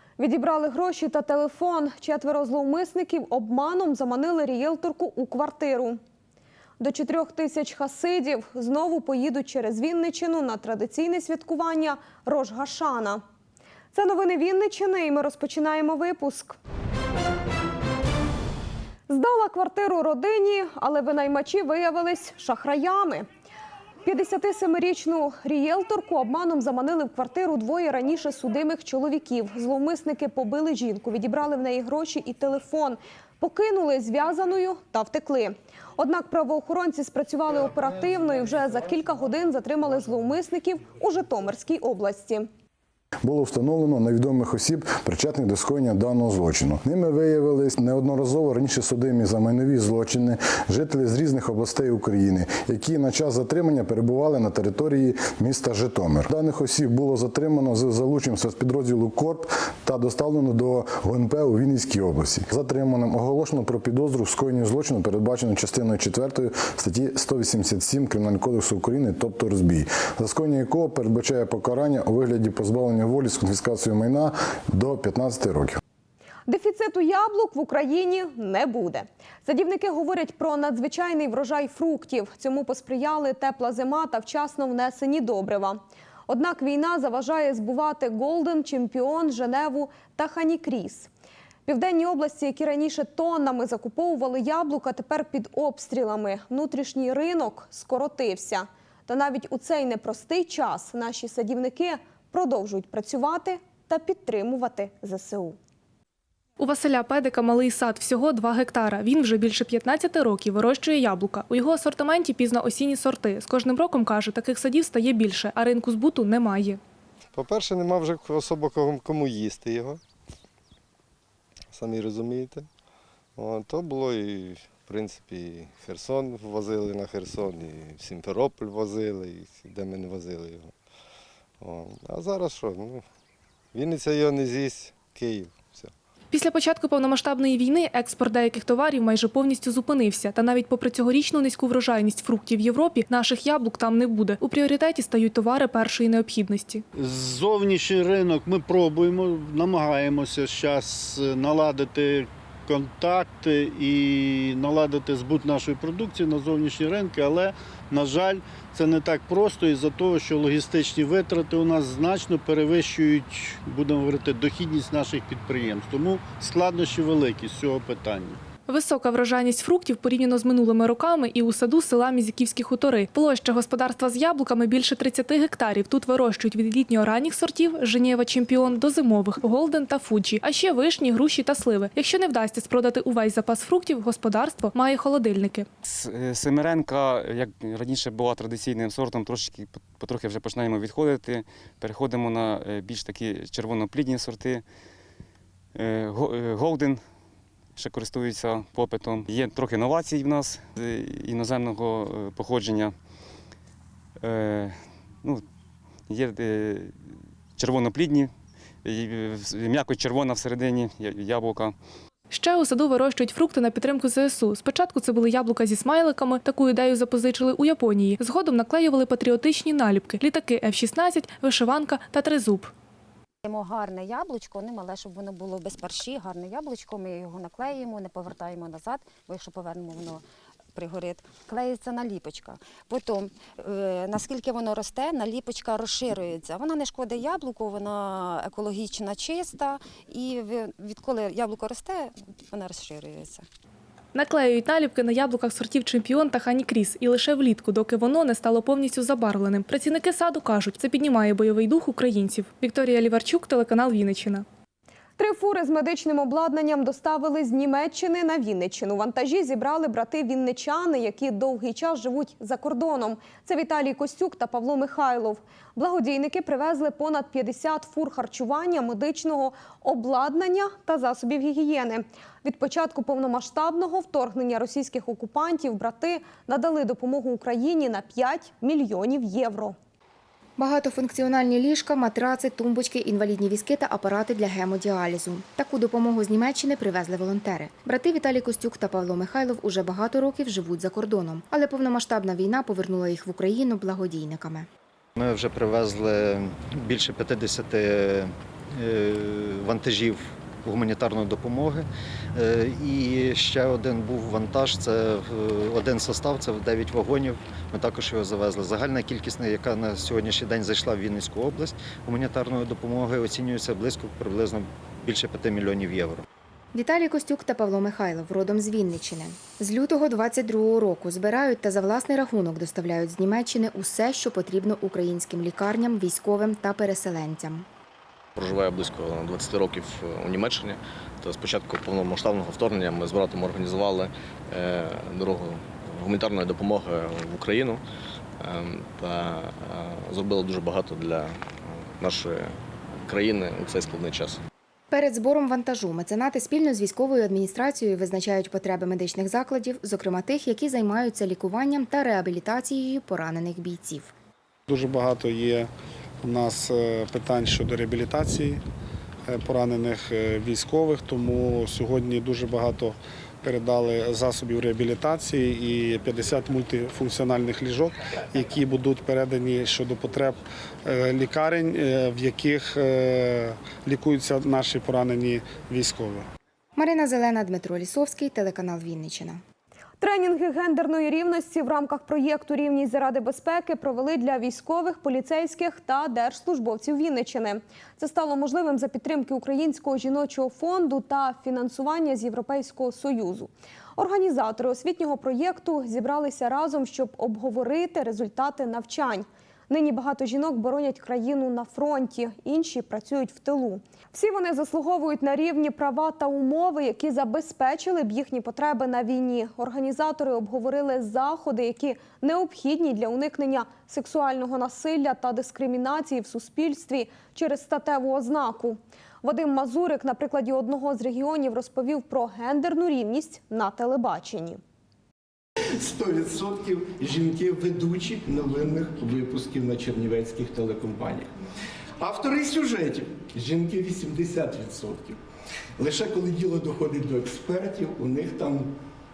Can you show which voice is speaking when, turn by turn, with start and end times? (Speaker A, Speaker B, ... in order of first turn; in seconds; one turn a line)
Speaker A: 0.2-6.0
Speaker A: 6.8-13.2
Speaker A: 13.9-16.6
Speaker A: 19.1-23.2
Speaker A: 24.0-42.5
Speaker B: 43.2-75.8
Speaker A: 76.5-91.1
Speaker A: 91.7-105.5
Speaker C: 106.6-116.8
Speaker D: 117.3-120.0
Speaker D: 121.7-122.7
Speaker D: 123.4-130.7
Speaker D: 131.6-133.0
Speaker D: 133.7-135.9
Speaker C: 136.3-146.8
Speaker E: 147.0-168.4
Speaker C: 168.7-185.7
Speaker F: 185.8-194.6
Speaker F: 195.7-197.0
Speaker F: 197.7-202.9
Speaker F: 204.2-205.4
Speaker F: 206.1-206.9
Speaker F: 207.6-208.3
Speaker F: 208.8-211.8
Speaker C: 212.3-222.7
Speaker G: 223.4-230.2
Speaker G: 230.7-243.4
Speaker C: 244.1-254.4
Speaker A: 255.2-279.7
Speaker H: 280.6-294.7
Speaker I: 295.2-316.2
Speaker H: 316.7-327.6
Speaker J: 328.4-337.8
Speaker J: 338.4-344.4
Speaker H: 344.9-354.1
Speaker K: 354.7-355.7
Speaker K: 356.2-358.6
Speaker K: 359.3-376.2
Speaker H: 376.8-379.4
Speaker A: 380.0-424.6
Speaker L: 425.8-431.3
Speaker L: 432.0-435.2
Speaker L: 435.8-438.7